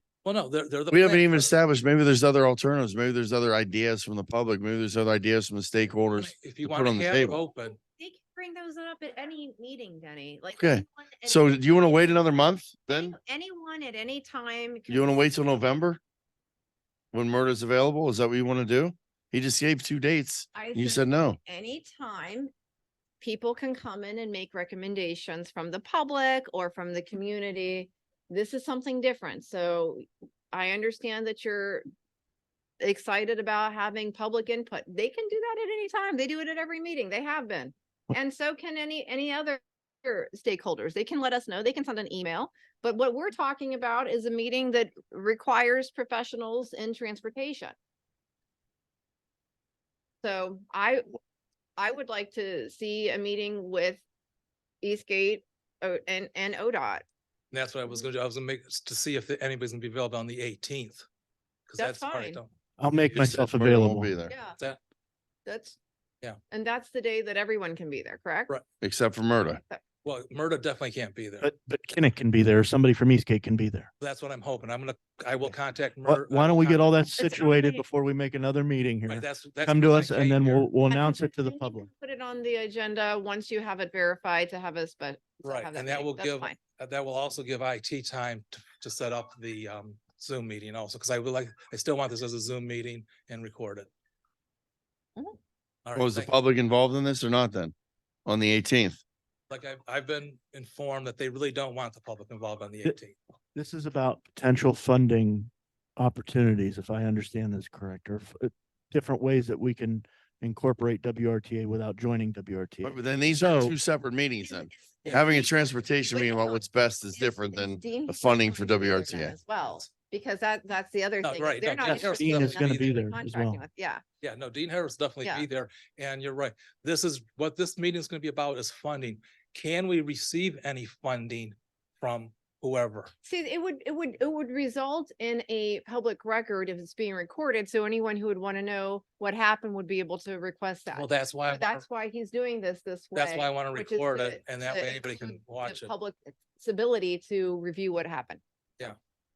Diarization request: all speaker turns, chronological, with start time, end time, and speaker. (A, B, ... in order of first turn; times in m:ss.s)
0:00.2-0:01.6 A
0:00.9-0:07.4 B
0:06.2-0:07.8 A
0:07.8-0:12.3 C
0:10.6-0:13.1 B
0:12.9-0:15.3 C
0:14.9-0:16.0 B
0:17.1-0:21.4 B
0:20.5-0:22.5 C
0:23.2-0:31.8 C
0:32.8-0:47.7 C
0:50.2-0:51.0 C
0:51.8-0:54.0 C
0:54.8-0:57.0 C
0:57.5-1:01.0 A
1:01.7-1:02.5 A
1:01.8-1:02.4 C
1:02.8-1:04.2 D
1:03.2-1:04.3 B
1:04.3-1:04.6 C
1:05.4-1:05.8 C
1:06.5-1:08.6 C
1:08.8-1:09.6 B
1:10.0-1:11.5 A
1:11.4-1:13.9 D
1:14.0-1:16.9 A
1:16.0-1:21.8 D
1:17.2-1:17.8 C
1:19.1-1:20.7 A
1:20.9-1:26.6 C
1:25.4-1:33.9 A
1:35.8-1:36.3 A
1:36.0-1:37.7 B
1:38.2-1:39.0 B
1:39.5-1:43.2 A
1:43.5-1:53.7 D
1:52.8-1:59.4 B
1:54.4-2:04.0 C
1:59.6-1:59.8 A
2:01.2-2:03.0 A
2:01.8-2:03.6 D
2:04.2-2:13.1 A
2:13.2-2:28.4 C
2:20.9-2:21.8 A
2:23.1-2:25.9 A